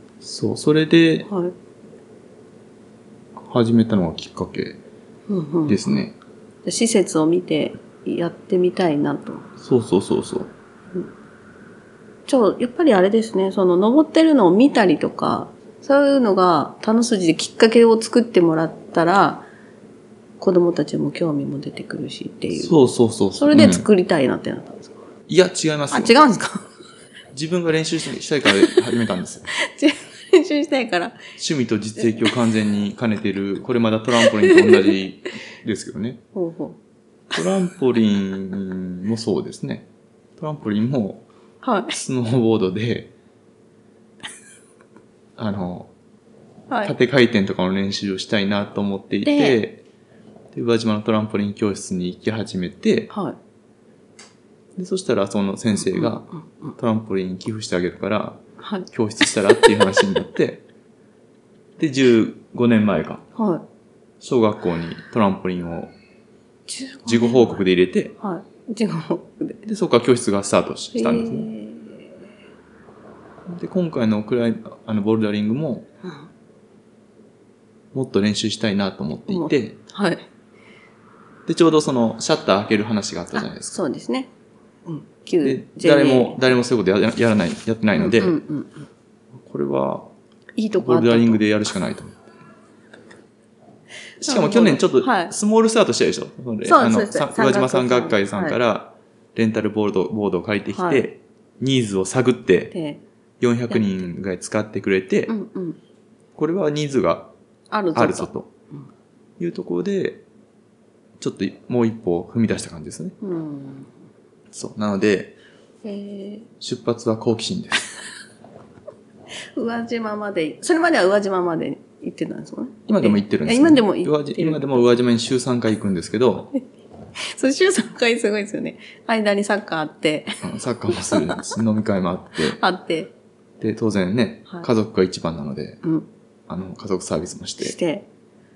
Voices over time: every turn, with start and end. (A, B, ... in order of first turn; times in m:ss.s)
0:00.2-0:01.3 A
0:01.3-0:01.5 B
0:03.4-0:04.8 A
0:05.3-0:06.0 B
0:05.7-0:06.2 A
0:06.6-0:09.5 B
0:09.6-0:10.5 A
0:12.3-0:19.5 B
0:20.4-0:22.8 B
0:22.5-0:23.9 A
0:23.4-0:25.0 B
0:25.3-0:26.2 A
0:25.9-0:26.7 B
0:27.3-0:29.5 A
0:29.6-0:31.2 B
0:31.4-0:36.2 A
0:34.2-0:35.0 B
0:36.4-0:36.8 B
0:37.3-0:41.3 A
0:41.6-0:42.0 B
0:41.9-0:43.1 A
0:45.4-0:45.9 A
0:46.7-0:47.0 B
0:46.8-0:49.8 A
0:49.2-0:49.6 B
0:50.5-0:53.1 A
0:53.1-0:53.4 B
0:54.8-0:58.4 A
0:55.9-0:56.8 B
0:58.6-1:00.1 B
0:58.9-1:00.6 A
1:01.8-1:03.2 A
1:03.4-1:03.6 B
1:04.2-1:05.9 A
1:06.7-1:07.6 B
1:07.0-1:08.2 A
1:08.2-1:09.6 B
1:09.6-1:11.5 A
1:10.9-1:12.0 B
1:13.5-1:15.9 A
1:17.9-1:19.8 A
1:19.3-1:20.2 B
1:21.5-1:23.8 A
1:23.7-1:24.3 B
1:24.9-1:26.4 B
1:25.4-1:28.4 A
1:28.0-1:28.9 B
1:29.4-1:30.1 A
1:30.6-1:31.4 B
1:30.8-1:32.3 A
1:34.2-1:35.3 B
1:34.2-1:42.7 A
1:36.6-1:38.6 B
1:40.7-1:41.1 B
1:42.7-1:43.0 B
1:43.4-1:45.3 A
1:43.7-1:44.1 B
1:45.3-1:45.8 B
1:46.4-1:47.3 A
1:47.7-1:48.9 B
1:48.0-1:48.5 A
1:49.4-1:50.2 A
1:51.2-1:53.2 A
1:53.2-1:53.9 B
1:54.5-1:55.4 A
1:55.8-1:56.5 B
1:56.6-1:57.9 A
1:59.6-2:04.9 B
2:02.9-2:06.5 A
2:07.2-2:11.6 B
2:10.4-2:12.6 A
2:12.6-2:13.1 B
2:13.6-2:15.8 A
2:16.5-2:17.8 A
2:17.6-2:18.1 B